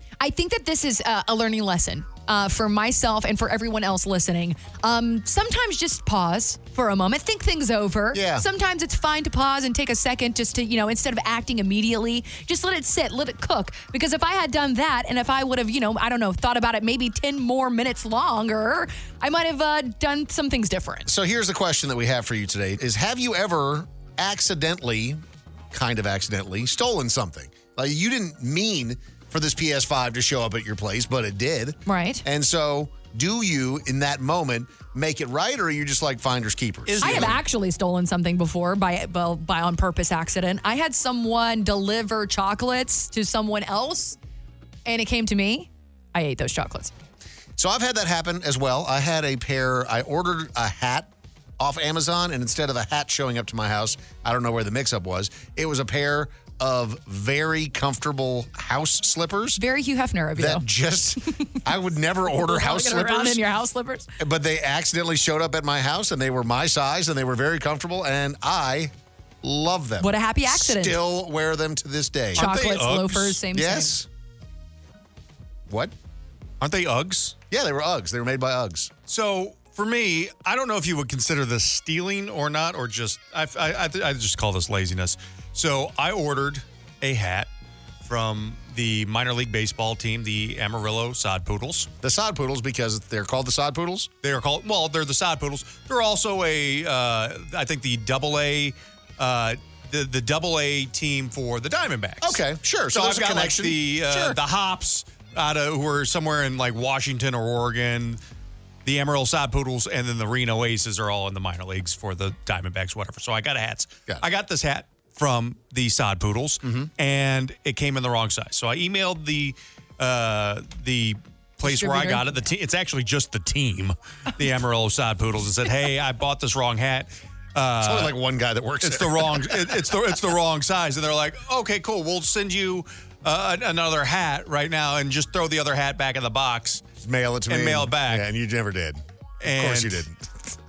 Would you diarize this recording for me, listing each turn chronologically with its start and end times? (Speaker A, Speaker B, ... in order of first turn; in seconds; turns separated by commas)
Speaker A: 0.2-21.1, Speaker B: 8.1-8.4, Speaker B: 21.1-37.4, Speaker A: 31.9-32.2, Speaker C: 36.9-37.4, Speaker A: 37.0-44.2, Speaker A: 44.9-46.9, Speaker B: 47.6-59.6, Speaker A: 59.6-60.6, Speaker B: 60.4-63.4, Speaker A: 62.4-64.1, Speaker B: 64.2-72.4, Speaker A: 70.0-71.0, Speaker C: 72.3-73.4, Speaker A: 72.4-74.0, Speaker B: 73.5-74.1, Speaker C: 76.6-77.4, Speaker B: 77.5-78.9, Speaker C: 79.1-87.5, Speaker C: 88.0-91.9, Speaker B: 92.0-94.1, Speaker C: 94.2-102.4, Speaker B: 102.2-104.4, Speaker C: 102.9-108.2, Speaker C: 108.8-128.2, Speaker B: 116.6-116.9, Speaker A: 121.6-122.2, Speaker B: 127.8-129.9, Speaker C: 128.8-136.8, Speaker B: 137.0-140.3, Speaker C: 137.5-138.3, Speaker C: 139.4-140.1